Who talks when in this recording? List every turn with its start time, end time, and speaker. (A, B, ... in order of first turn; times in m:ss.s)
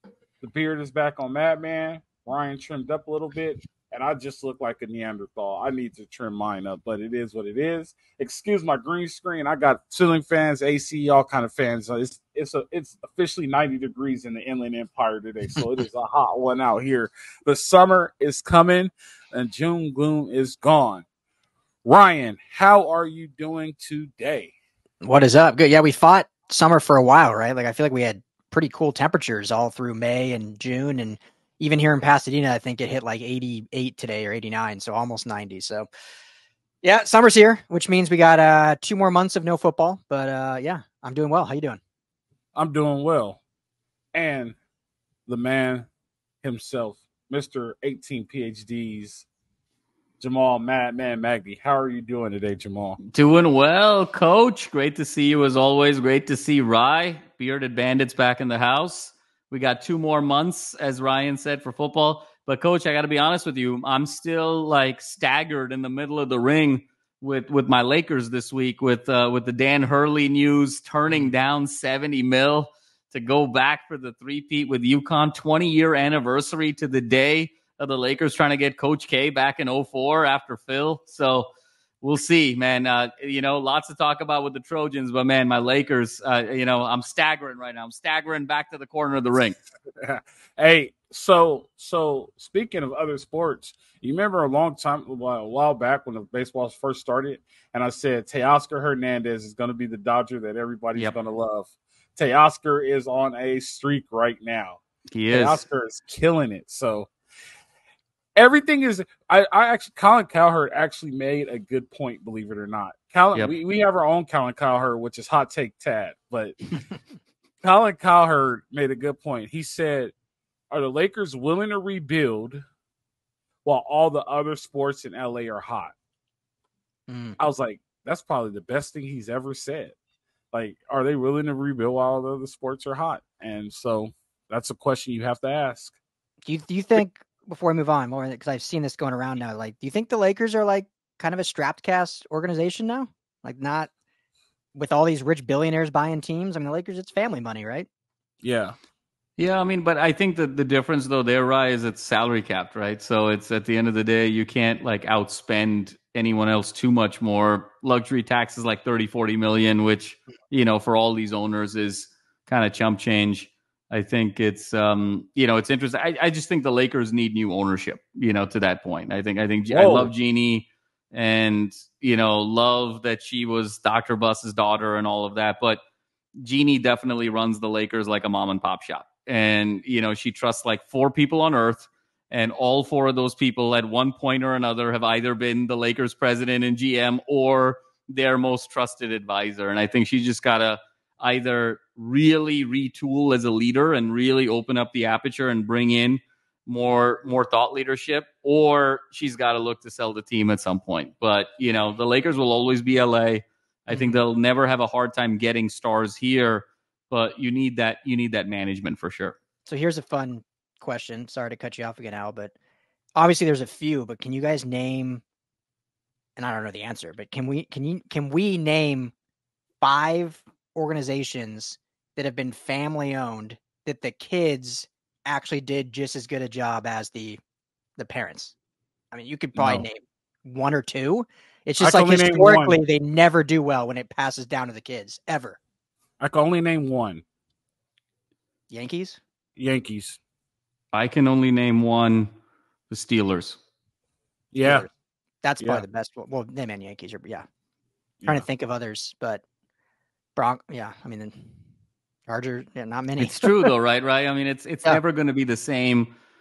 0:00.4-0:21.0 A
0:21.8-0:24.6 A
0:25.0-0:35.9 B
0:36.8-0:41.8 B
0:42.6-0:43.4 A
0:44.1-0:44.6 A
0:45.3-0:45.9 A
0:46.4-0:49.3 A
0:50.2-0:53.0 A
0:53.1-1:21.5 C
1:22.0-1:29.6 C
1:30.0-1:47.1 A
1:45.1-1:45.6 C
1:48.4-1:56.8 A
1:57.6-2:00.1 A
2:00.7-2:02.6 A
2:03.6-2:05.9 A
2:07.1-2:07.4 B
2:07.4-2:10.0 A
2:10.5-2:16.0 A
2:16.4-2:23.9 B
2:24.7-2:27.9 B
2:28.4-2:28.8 A
2:29.4-2:55.8 C
2:49.7-2:50.1 A
2:56.4-3:29.4 C
3:23.9-3:24.2 B
3:29.7-3:32.5 B
3:33.2-3:35.2 B
3:36.4-3:39.1 B
3:39.8-3:47.4 B
3:48.0-3:48.6 B
3:49.1-3:55.6 B
3:49.6-3:49.8 A
3:51.8-3:52.8 A
3:56.2-3:57.2 A
3:58.7-3:59.2 B
3:59.6-4:00.2 A
4:00.9-4:02.3 C
4:02.9-4:03.6 C
4:04.5-4:04.9 A
4:04.6-4:04.9 B
4:05.4-4:07.4 B
4:08.3-4:09.4 B
4:10.4-4:11.4 B
4:12.3-4:13.7 B
4:13.2-4:16.1 C